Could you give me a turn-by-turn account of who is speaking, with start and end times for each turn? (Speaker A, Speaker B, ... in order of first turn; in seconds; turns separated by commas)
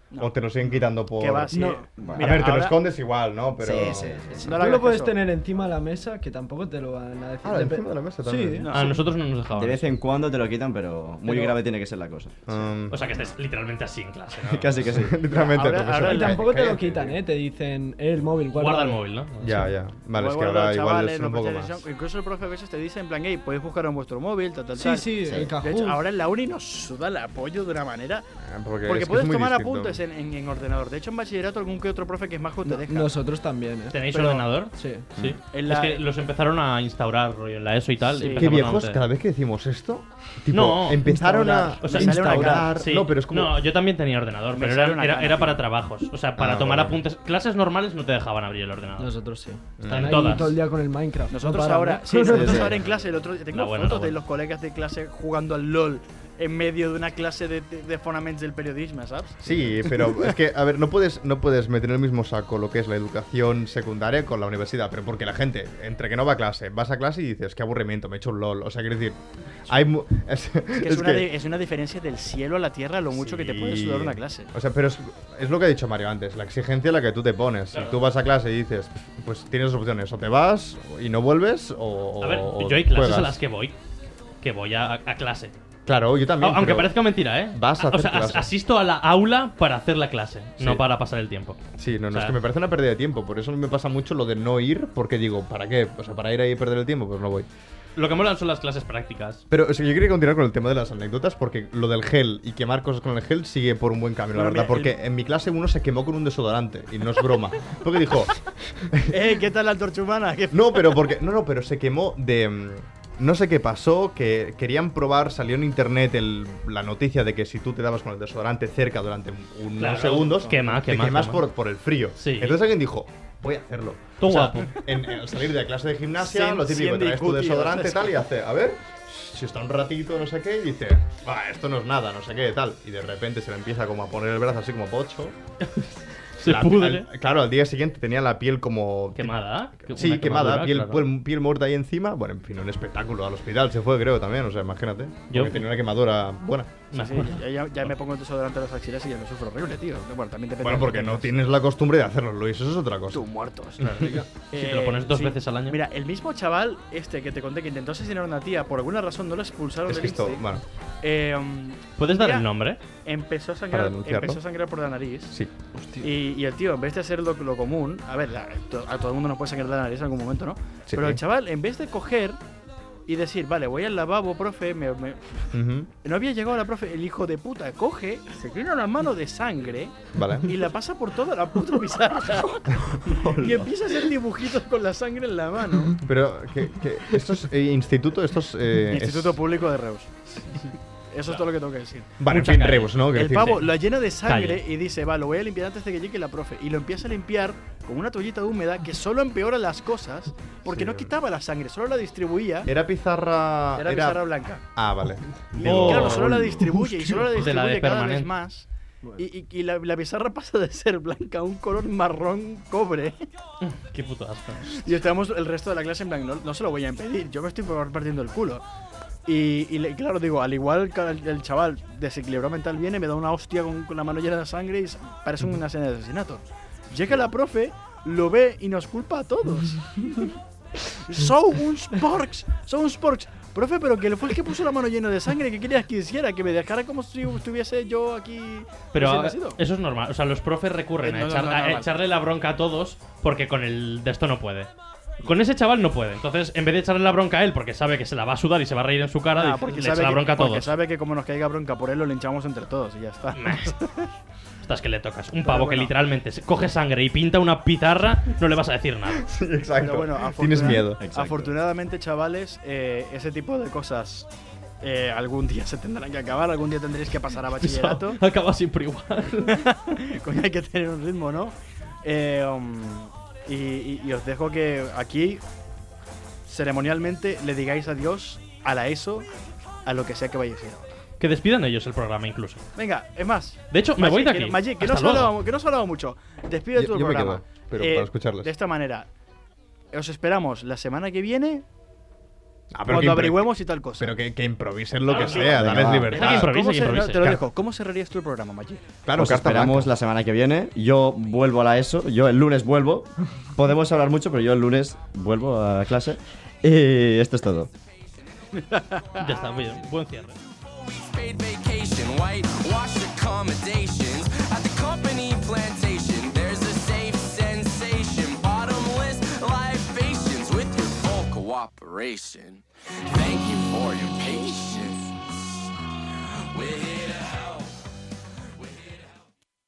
Speaker A: 0.1-0.5, Speaker B: 0.2-4.5, Speaker A: 1.0-2.8, Speaker C: 1.5-1.8, Speaker D: 2.0-2.4, Speaker D: 3.6-4.6, Speaker A: 4.4-5.2, Speaker C: 4.6-8.7, Speaker B: 7.4-8.7, Speaker A: 8.6-9.0, Speaker E: 8.7-9.9, Speaker D: 9.6-12.4, Speaker C: 11.2-11.6, Speaker B: 12.5-13.1, Speaker E: 12.9-14.9, Speaker D: 14.5-15.2, Speaker B: 14.9-17.2, Speaker A: 15.2-16.6, Speaker C: 16.0-19.0, Speaker E: 18.5-19.7, Speaker B: 19.4-21.9, Speaker A: 20.1-28.2, Speaker C: 24.8-26.0, Speaker D: 25.2-25.5, Speaker B: 28.4-30.0, Speaker A: 28.9-33.1, Speaker C: 32.6-34.0, Speaker E: 33.9-39.0, Speaker A: 34.1-34.5, Speaker C: 34.8-35.0, Speaker A: 35.5-36.0, Speaker A: 38.1-38.7, Speaker B: 38.3-43.6, Speaker E: 40.5-41.1, Speaker A: 41.1-42.8, Speaker C: 41.3-41.6, Speaker E: 41.8-49.1, Speaker A: 44.5-45.6, Speaker B: 46.4-47.0, Speaker C: 49.0-52.7, Speaker B: 49.8-50.5, Speaker E: 49.9-50.5, Speaker A: 51.3-60.3, Speaker D: 52.3-52.9, Speaker E: 53.5-54.2, Speaker B: 59.4-71.3, Speaker A: 70.8-74.5, Speaker B: 73.1-83.4, Speaker E: 82.2-83.8, Speaker E: 84.4-85.5, Speaker B: 85.9-87.0, Speaker E: 86.4-91.6, Speaker B: 87.5-88.5, Speaker B: 90.6-90.8, Speaker B: 91.8-97.5, Speaker E: 98.0-99.4, Speaker B: 99.5-109.1, Speaker A: 104.3-104.9, Speaker A: 109.1-111.0, Speaker B: 110.5-135.4, Speaker E: 119.8-121.5, Speaker E: 122.2-122.6, Speaker E: 124.2-124.7, Speaker A: 126.2-128.2, Speaker E: 136.4-137.1, Speaker B: 136.4-146.8, Speaker E: 139.2-141.1, Speaker E: 145.3-145.7, Speaker E: 146.9-147.9, Speaker A: 146.9-151.3, Speaker B: 150.6-153.2, Speaker A: 153.1-160.5, Speaker B: 153.8-154.1, Speaker E: 153.8-155.8, Speaker B: 159.9-160.6, Speaker A: 161.0-162.5, Speaker E: 162.0-162.8, Speaker A: 163.0-165.4, Speaker B: 163.7-164.4, Speaker C: 165.8-166.1, Speaker A: 166.0-172.4, Speaker B: 170.9-171.2, Speaker A: 173.1-175.5, Speaker B: 175.5-175.9, Speaker A: 176.0-186.0, Speaker B: 180.1-180.6, Speaker D: 183.2-183.7, Speaker B: 186.0-189.4, Speaker A: 188.8-190.1, Speaker A: 191.1-192.1, Speaker B: 192.2-193.7, Speaker E: 192.3-193.6, Speaker A: 193.1-202.7, Speaker E: 194.2-194.6, Speaker B: 200.7-201.1, Speaker B: 202.7-207.0, Speaker A: 203.8-204.6, Speaker A: 205.5-208.7, Speaker E: 205.6-206.6, Speaker E: 207.2-208.3, Speaker A: 209.2-213.2, Speaker E: 213.6-214.8, Speaker A: 214.7-218.6, Speaker A: 219.3-239.6, Speaker E: 238.9-244.7, Speaker A: 241.0-241.9, Speaker E: 245.2-250.7, Speaker A: 249.4-254.1, Speaker E: 253.3-253.8, Speaker E: 254.6-259.3, Speaker A: 255.4-255.9, Speaker B: 259.2-261.0, Speaker A: 259.8-264.3, Speaker D: 260.9-261.5, Speaker A: 264.8-268.2, Speaker E: 267.6-269.7, Speaker A: 269.5-275.4, Speaker A: 276.5-279.3, Speaker A: 279.9-281.0, Speaker E: 281.2-282.6, Speaker A: 282.8-289.1, Speaker E: 283.7-285.3, Speaker B: 286.7-288.5, Speaker A: 289.9-291.6, Speaker B: 292.7-296.6, Speaker A: 292.9-294.1, Speaker E: 295.1-297.4, Speaker A: 295.1-298.9, Speaker D: 295.6-296.1, Speaker B: 299.1-299.9, Speaker D: 299.1-307.7, Speaker A: 308.5-309.2, Speaker E: 309.2-310.4, Speaker F: 310.5-325.2, Speaker F: 326.5-327.7, Speaker F: 328.6-329.1